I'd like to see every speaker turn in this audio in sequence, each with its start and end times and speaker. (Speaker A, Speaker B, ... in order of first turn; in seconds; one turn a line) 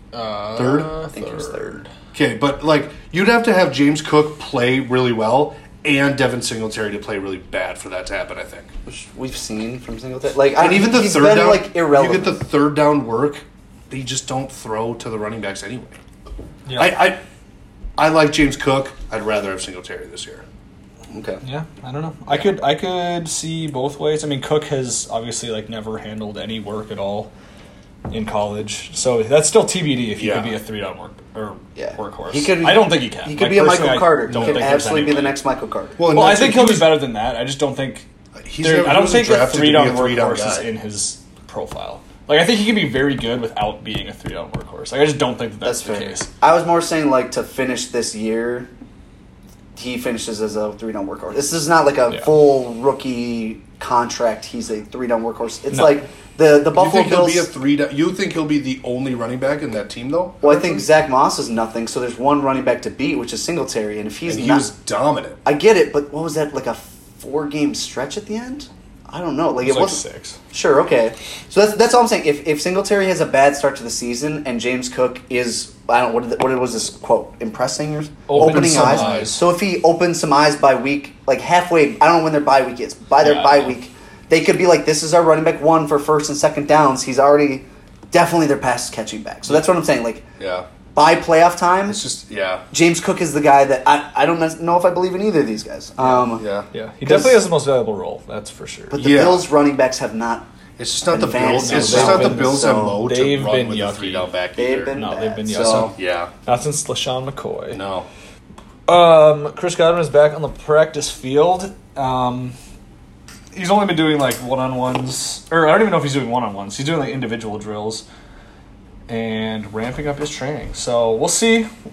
Speaker A: 0.1-1.9
Speaker B: 0.6-0.9
Speaker C: 1.1-1.8
Speaker B: 2.1-8.7
Speaker C: 8.9-12.4
Speaker B: 10.5-16.0
Speaker A: 16.7-17.0
Speaker B: 16.8-17.2
Speaker B: 18.0-20.4
Speaker C: 21.1-21.4
Speaker A: 21.4-27.3
Speaker A: 28.1-35.4
Speaker B: 30.2-30.6
Speaker C: 31.8-36.0
Speaker B: 34.3-34.7
Speaker B: 36.0-37.0
Speaker A: 36.1-38.1
Speaker B: 38.4-40.7
Speaker A: 38.6-46.3
Speaker C: 45.6-48.7
Speaker C: 49.8-57.5
Speaker A: 55.7-56.0
Speaker B: 56.8-60.9
Speaker C: 60.4-64.7
Speaker B: 64.3-65.4
Speaker C: 65.5-70.0
Speaker A: 69.6-70.4
Speaker C: 70.5-90.3
Speaker A: 78.3-79.4
Speaker B: 78.3-79.4
Speaker A: 83.2-83.8
Speaker B: 90.4-90.7
Speaker C: 91.0-92.0
Speaker B: 91.9-92.6
Speaker C: 92.7-96.5
Speaker A: 96.0-99.0
Speaker B: 96.4-96.7
Speaker C: 97.0-97.4
Speaker C: 98.9-100.5
Speaker B: 99.0-99.5
Speaker B: 100.8-104.9
Speaker C: 101.1-103.0
Speaker A: 101.5-104.3
Speaker C: 104.6-105.9
Speaker A: 104.9-107.8
Speaker B: 105.7-106.3
Speaker B: 107.7-108.1
Speaker A: 108.9-112.6
Speaker A: 113.5-118.0
Speaker A: 119.1-121.7